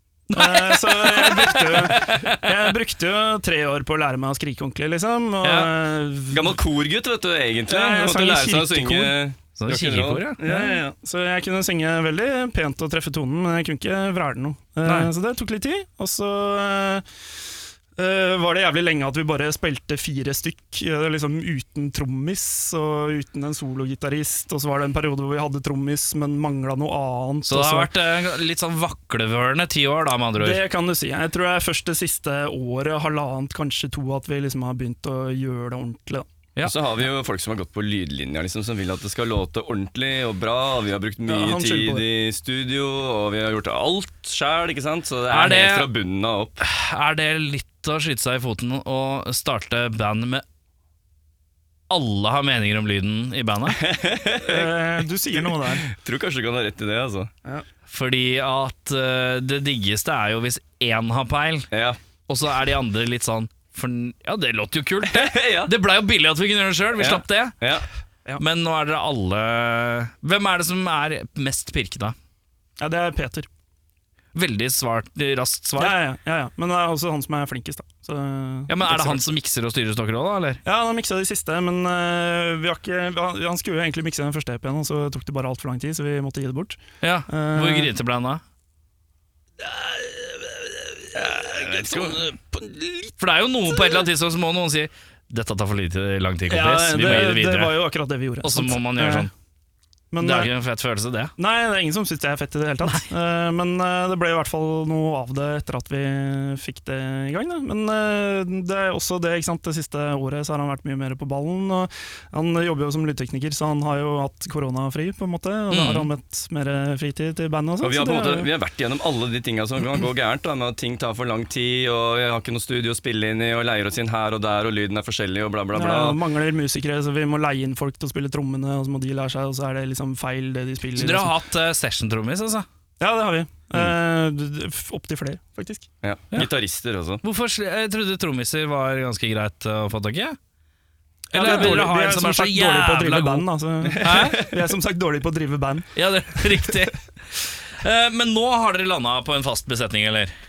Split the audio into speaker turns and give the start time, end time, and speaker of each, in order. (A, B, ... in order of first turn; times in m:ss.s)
0:00.3-0:02.5 A
0:00.3-0:06.5 B
0:05.4-0:05.7 A
0:06.3-0:10.2 C
0:07.7-0:09.1 B
0:09.6-0:10.8 A
0:10.4-0:17.0 B
0:14.8-0:15.1 A
0:18.0-0:27.9 B
0:27.4-0:30.6 A
0:30.4-0:36.2 B
0:36.6-0:46.6 C
0:41.3-0:42.0 B
0:45.3-0:45.9 A
0:46.6-0:50.4 A
0:51.9-0:53.8 A
0:53.8-0:57.3 C
0:54.4-0:55.8 B
0:57.9-1:01.7 A
1:01.7-1:02.0 C
1:02.3-1:07.6 A
1:05.1-1:05.7 C
1:07.0-1:07.8 C
1:08.4-1:12.1 A
1:12.8-1:13.5 B
1:14.3-1:16.0 A
1:15.8-1:19.3 B
1:18.7-1:20.6 A
1:20.6-1:27.9 B
1:27.0-1:28.4 A
1:29.6-1:33.1 B
1:33.2-1:37.7 A
1:33.7-1:34.0 B
1:36.5-1:39.3 B
1:38.4-1:39.3 A
1:40.1-1:40.5 B
1:40.2-1:41.3 A
1:41.4-1:58.5 B
1:55.7-1:56.1 A
1:57.8-2:06.2 C
2:05.7-2:11.3 B
2:11.0-2:12.6 A
2:13.0-2:15.9 B
2:16.0-2:17.2 C
2:17.2-2:20.4 A
2:21.3-2:23.4 A
2:21.3-2:26.8 B
2:21.4-2:21.9 C
2:23.8-2:24.5 C
2:24.0-2:24.4 A
2:26.0-2:27.0 A
2:27.8-2:30.3 A